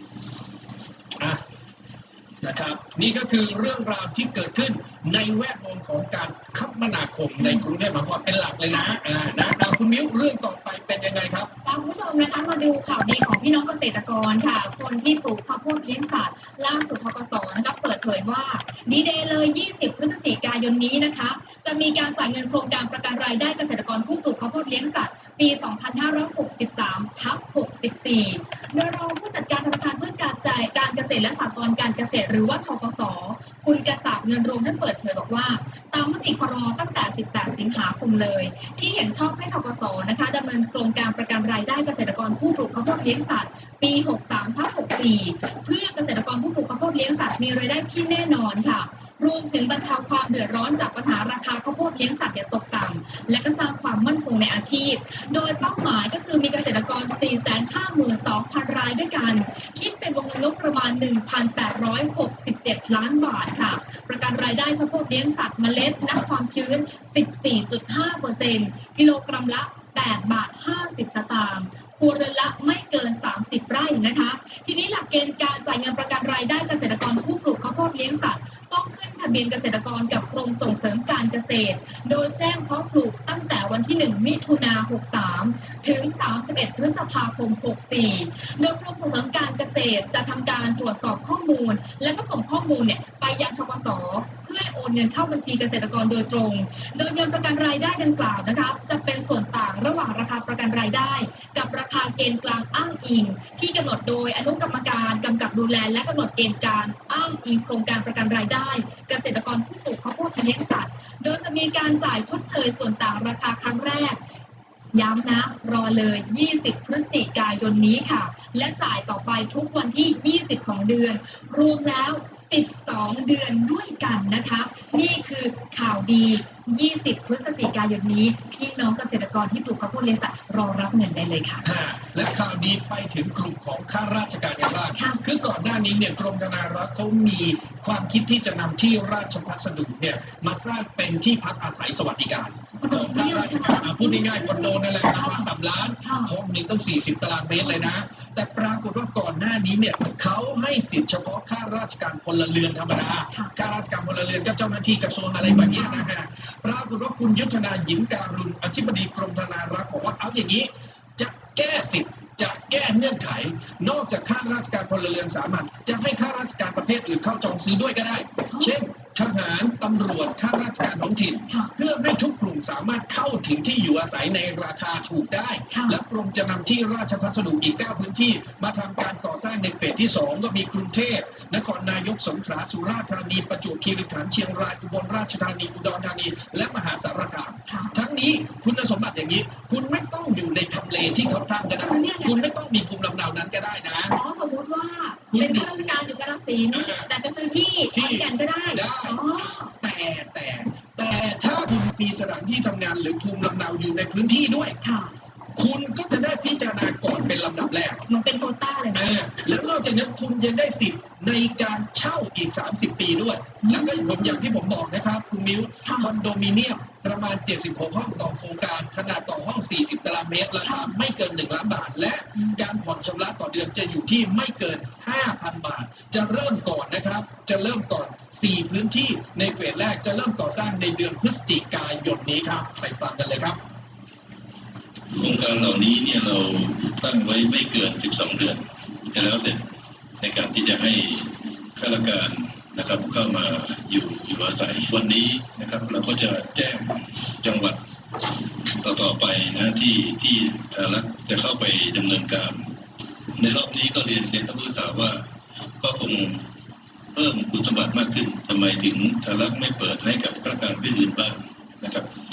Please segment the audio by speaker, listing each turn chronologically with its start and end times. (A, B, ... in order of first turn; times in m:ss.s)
0:02.4-0:11.5 A
0:11.6-1:54.2 B
1:54.9-2:11.7 B
2:11.6-3:14.2 A
2:15.0-2:15.2 B
2:22.8-2:25.5 B
2:26.0-2:26.3 B
2:27.6-2:27.9 B
2:35.4-2:36.0 B
2:55.7-2:56.0 B
3:07.7-3:07.9 B
3:11.8-3:12.4 B
3:14.1-3:19.7 B
3:15.3-3:15.8 A
3:16.7-3:17.1 A
3:17.9-3:24.8 A
3:24.8-3:25.1 B
3:25.6-3:28.0 A
3:28.1-3:29.0 B
3:28.9-3:53.6 A
3:33.6-3:34.4 B
3:35.8-3:36.1 B
3:40.6-3:40.9 B
3:55.1-3:59.6 C
4:00.2-4:12.8 C
4:13.4-4:15.2 C
4:15.8-4:16.5 C
4:17.1-4:22.1 C